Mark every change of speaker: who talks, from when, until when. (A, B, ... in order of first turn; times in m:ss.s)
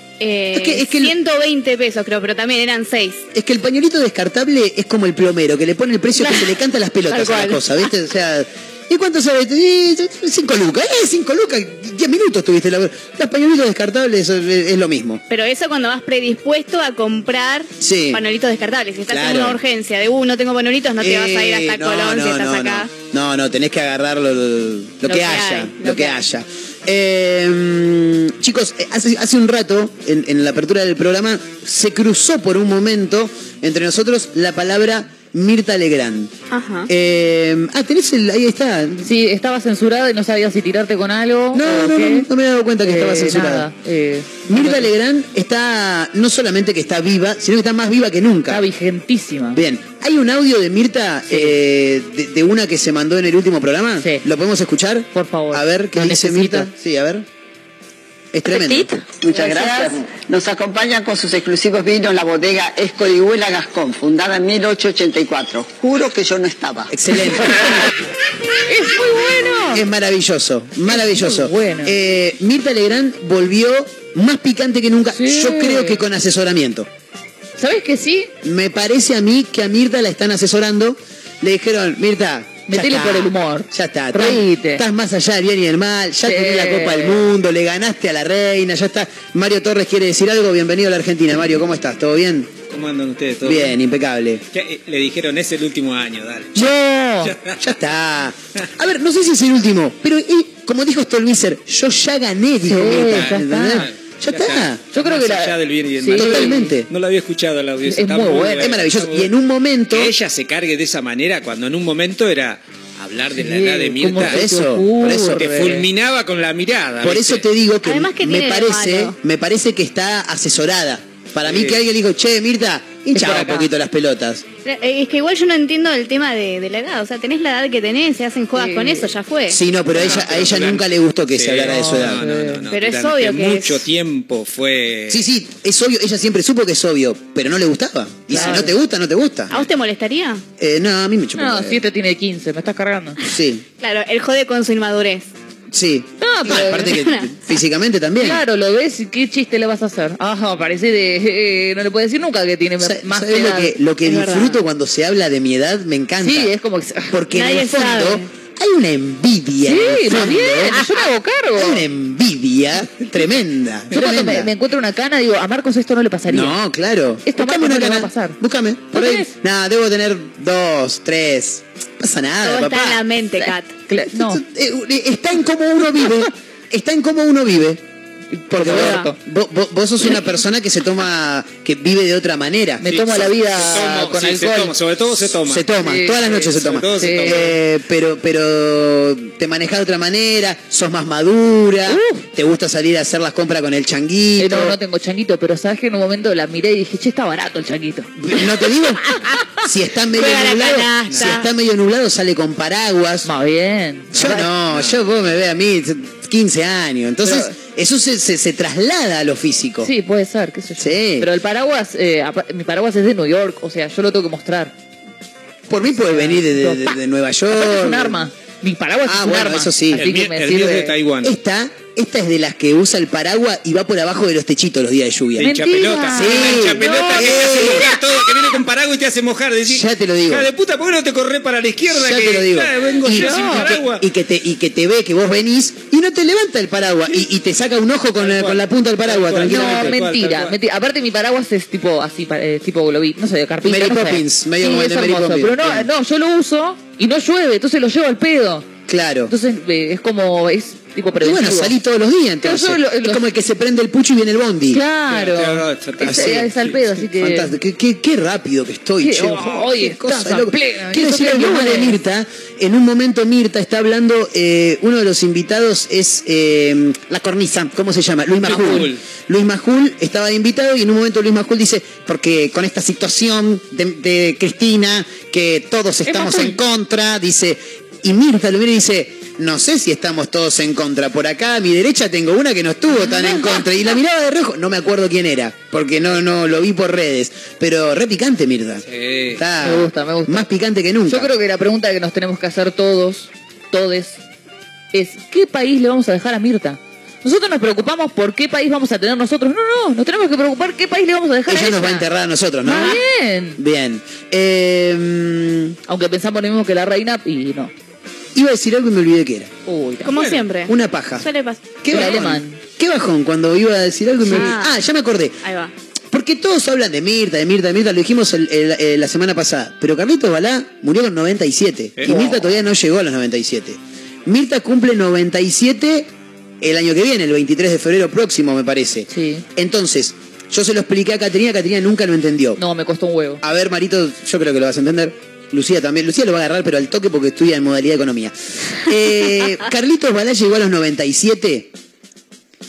0:00.2-0:03.2 A
0:00.5-0:01.2 B
0:03.3-0:15.2 B
0:06.2-0:06.6 A
0:07.1-0:07.9 A
0:15.3-0:22.9 A
0:17.8-0:18.2 B
0:19.1-0:19.6 B
0:21.0-0:36.3 B
0:25.0-0:26.2 A
0:36.5-0:36.9 A
0:36.9-0:39.1 B
0:39.0-0:42.3 C
0:41.5-0:43.7 B
0:42.8-0:44.9 C
0:44.5-0:48.6 B
0:48.5-0:49.6 C
0:49.6-0:57.3 B
0:54.0-0:54.2 C
0:55.1-0:56.7 C
0:58.3-0:58.9 B
0:58.5-0:59.9 C
0:59.2-1:07.4 D
1:06.9-1:07.9 B
1:08.7-1:09.8 C
1:09.7-1:16.9 B
1:10.9-1:12.0 C
1:15.2-1:16.0 C
1:17.6-1:18.3 C
1:18.4-1:32.6 B
1:22.7-1:24.8 C
1:26.3-1:27.2 C
1:32.7-1:33.8 E
1:33.4-1:34.4 B
1:34.5-1:36.6 E
1:36.6-1:37.3 C
1:37.2-1:37.6 E
1:37.6-1:44.8 B
1:42.7-1:43.9 C
1:43.0-1:49.3 E
1:44.9-1:46.7 C
1:46.1-1:46.9 B
1:47.9-1:48.7 C
1:48.6-1:50.2 B
1:49.9-1:54.4 E
1:53.4-1:55.9 C
1:54.2-1:55.5 B
1:55.3-1:57.5 E
1:57.0-2:04.4 B
1:57.8-1:59.2 A
2:01.4-2:01.8 E
2:03.2-2:03.7 C
2:04.6-2:09.6 A
2:08.6-2:09.1 C
2:09.5-2:12.2 B
2:09.9-2:15.3 E
2:11.7-2:12.6 C
2:12.7-2:13.8 A
2:15.1-2:19.7 B
2:18.3-2:18.8 C
2:19.5-2:20.4 A
2:20.6-2:21.8 B
2:21.4-2:23.2 C
2:23.3-2:23.6 B
2:23.8-2:25.3 A
2:25.7-2:28.4 B
2:26.2-2:27.0 C
2:26.5-2:27.5 A
2:28.2-2:33.7 C
2:32.8-2:36.5 B
2:34.0-2:34.6 A
2:36.2-2:37.1 C
2:37.1-2:40.9 B
2:37.3-2:38.3 A
2:39.6-2:41.8 C
2:41.5-2:44.5 B
2:43.9-2:46.6 C
2:46.3-2:53.0 B
2:47.2-2:48.4 C
2:48.9-2:49.3 C
2:52.4-2:53.8 A
2:53.4-2:54.4 C
2:54.1-2:57.8 B
2:58.3-2:59.2 C
2:58.5-3:03.7 B
2:58.7-2:59.1 A
3:02.8-3:04.8 C
3:02.9-3:07.5 E
3:05.4-3:14.8 B
3:05.8-3:06.4 C
3:07.0-3:07.6 C
3:11.9-3:12.2 C
3:14.4-3:18.1 C
3:18.2-3:23.3 B
3:19.1-3:21.5 A
3:23.2-3:24.6 C
3:24.1-3:29.9 B
3:27.2-3:27.5 C
3:29.8-3:34.7 C
3:30.8-3:31.3 B
3:35.7-3:38.2 B
3:36.1-3:37.0 C
3:37.5-3:41.0 C
3:39.1-3:40.1 B
3:39.9-3:41.3 E
3:41.2-3:45.6 B
3:45.4-3:54.0 E
3:45.4-3:47.9 C
3:46.1-3:47.9 B
3:49.7-3:50.5 B
3:51.9-4:00.0 B
3:53.1-3:53.8 C
3:58.2-4:00.6 E
3:59.4-4:08.7 C
4:03.6-4:05.9 B
4:08.9-4:09.3 B
4:09.3-4:11.8 C
4:11.2-4:14.8 B
4:12.4-4:13.2 C
4:14.7-4:17.6 C
4:15.1-4:17.1 E
4:16.0-4:16.6 B
4:17.2-4:51.3 B
4:19.0-4:22.0 C
4:28.4-4:29.0 E
4:28.5-4:28.9 C
4:36.1-4:36.6 C
4:42.9-4:43.6 C
4:48.8-4:49.4 E
4:49.6-4:50.5 C
4:51.1-4:54.2 C
4:54.9-5:02.1 C
5:01.5-5:03.0 B
5:02.6-5:03.6 C
5:03.6-5:05.8 B
5:05.9-5:07.7 C
5:08.4-5:09.5 B
5:09.7-5:10.2 C
5:10.0-5:11.8 A
5:10.7-5:11.3 B
5:11.8-5:15.4 B
5:11.9-5:12.6 C
5:14.2-5:14.8 A
5:15.4-5:15.7 A
5:16.1-5:26.1 B
5:22.0-5:22.3 E
5:22.1-5:22.4 C
5:26.6-5:32.6 B
5:29.1-5:29.4 C
5:32.6-5:33.4 C
5:33.4-5:41.7 B